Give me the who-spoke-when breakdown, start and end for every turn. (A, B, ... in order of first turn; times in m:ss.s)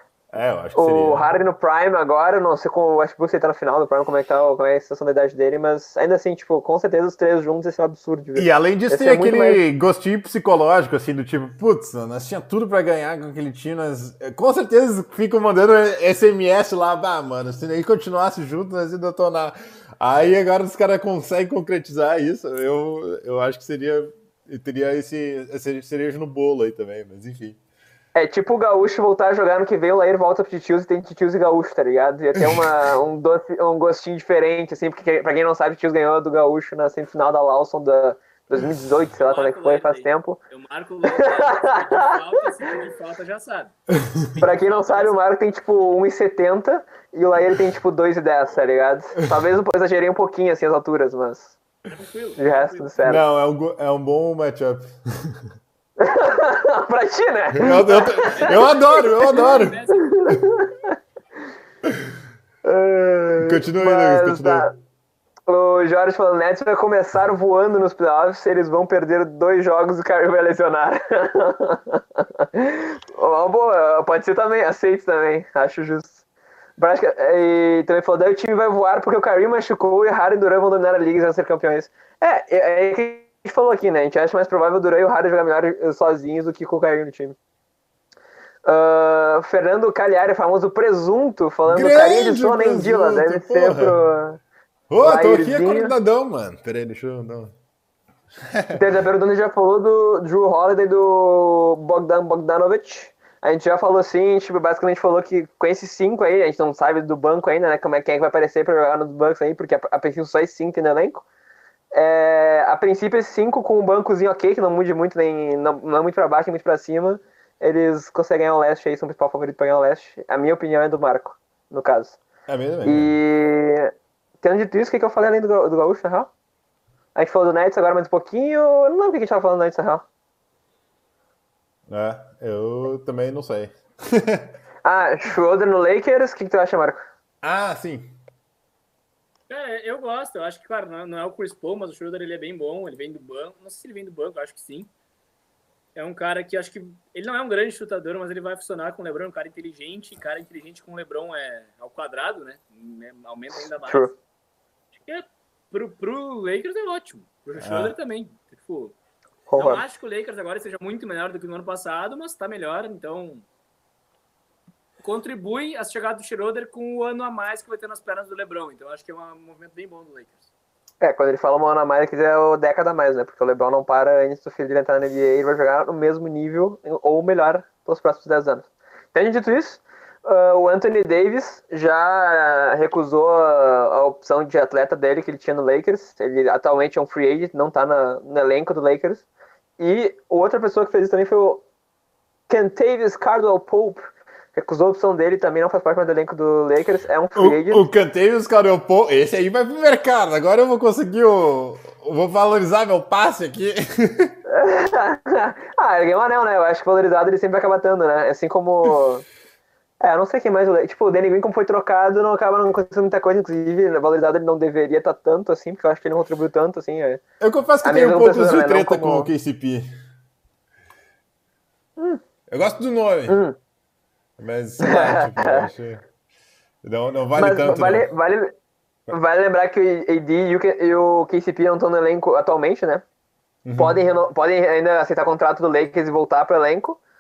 0:00.3-0:01.3 A
0:00.8-0:09.6 B
0:08.4-0:27.6 A
0:28.2-0:40.4 B
0:32.4-0:32.7 A
0:39.3-0:43.8 C
0:41.0-0:42.2 B
0:44.4-0:45.2 C
0:44.4-0:51.6 B
0:51.9-0:53.0 C
0:52.4-0:53.2 B
0:53.0-0:55.4 A
0:56.0-1:00.9 B
0:57.6-0:59.8 A
0:58.1-1:00.4 C
1:02.6-1:04.7 B
1:03.4-1:04.7 A
1:05.5-1:16.2 B
1:16.8-1:27.4 B
1:28.6-1:34.4 B
1:31.7-1:34.0 A
1:34.9-1:37.6 A
1:35.0-1:35.9 B
1:38.5-1:38.8 A
1:38.7-1:51.2 B
1:51.9-2:02.2 B
2:02.5-2:03.2 A
2:02.8-2:06.3 B
2:07.2-2:10.0 B
2:11.9-2:14.5 A
2:14.8-2:17.0 B
2:17.4-2:18.2 A
2:19.5-2:24.9 C
2:26.0-2:34.1 C
2:33.6-2:34.1 B
2:35.0-2:39.0 C
2:37.6-2:38.0 A
2:39.5-2:39.8 B
2:39.6-2:43.4 C
2:45.0-2:50.5 C
2:51.0-3:09.2 B
3:09.8-3:11.6 B
3:12.5-3:17.8 B
3:17.4-3:24.4 A
3:24.5-3:29.2 B
3:30.0-3:37.2 B
3:37.4-3:39.9 A
3:37.8-3:39.3 B
3:42.5-3:43.4 A
3:43.3-3:43.6 B
3:44.4-3:46.0 A
3:44.8-3:45.7 B
3:46.8-3:48.1 A
3:47.4-3:48.5 B
3:49.1-3:53.0 B
3:53.6-3:54.0 A
3:53.8-3:57.0 B